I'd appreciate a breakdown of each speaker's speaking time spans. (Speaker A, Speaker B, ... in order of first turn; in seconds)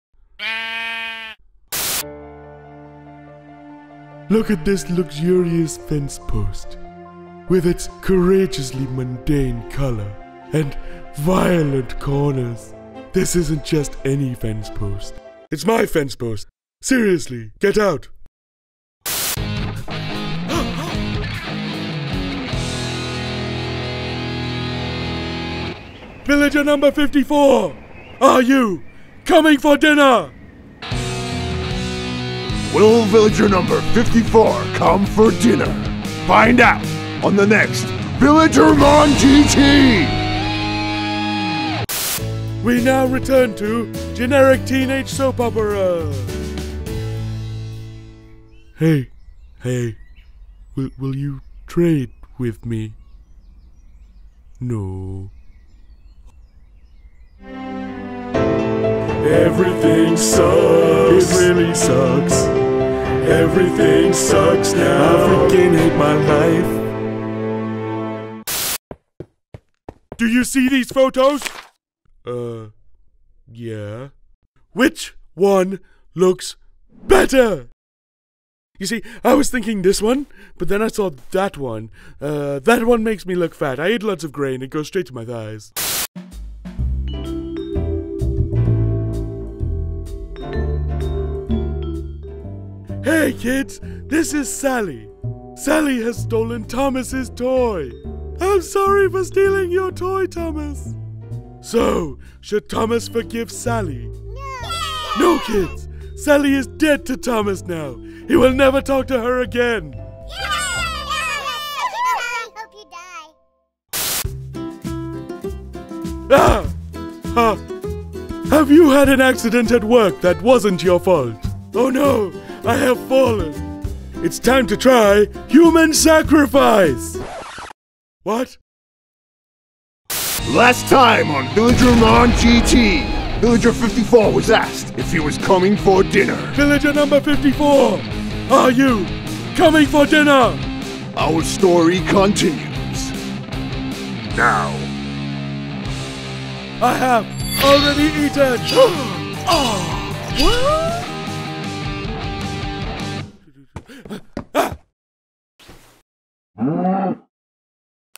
Speaker A: 4.3-6.8, 7.5-18.1, 26.2-30.3, 42.6-46.4, 48.8-50.0, 50.8-53.0, 54.6-55.3, 59.2-62.5, 63.2-66.8, 70.2-71.6, 72.2-72.7, 73.5-74.1, 74.7-77.7, 78.8-85.7, 93.0-101.0, 101.6-104.2, 105.0-110.0, 116.3-116.8, 117.3-117.6, 118.5-123.6, 124.2-127.2, 128.2-128.6, 136.5-140.6, 146.8-151.1, 153.8-154.8
Speaker B: 32.7-40.2, 130.4-136.6, 141.2-143.2, 144.3-144.9
Speaker C: 104.5-104.9, 110.4-113.3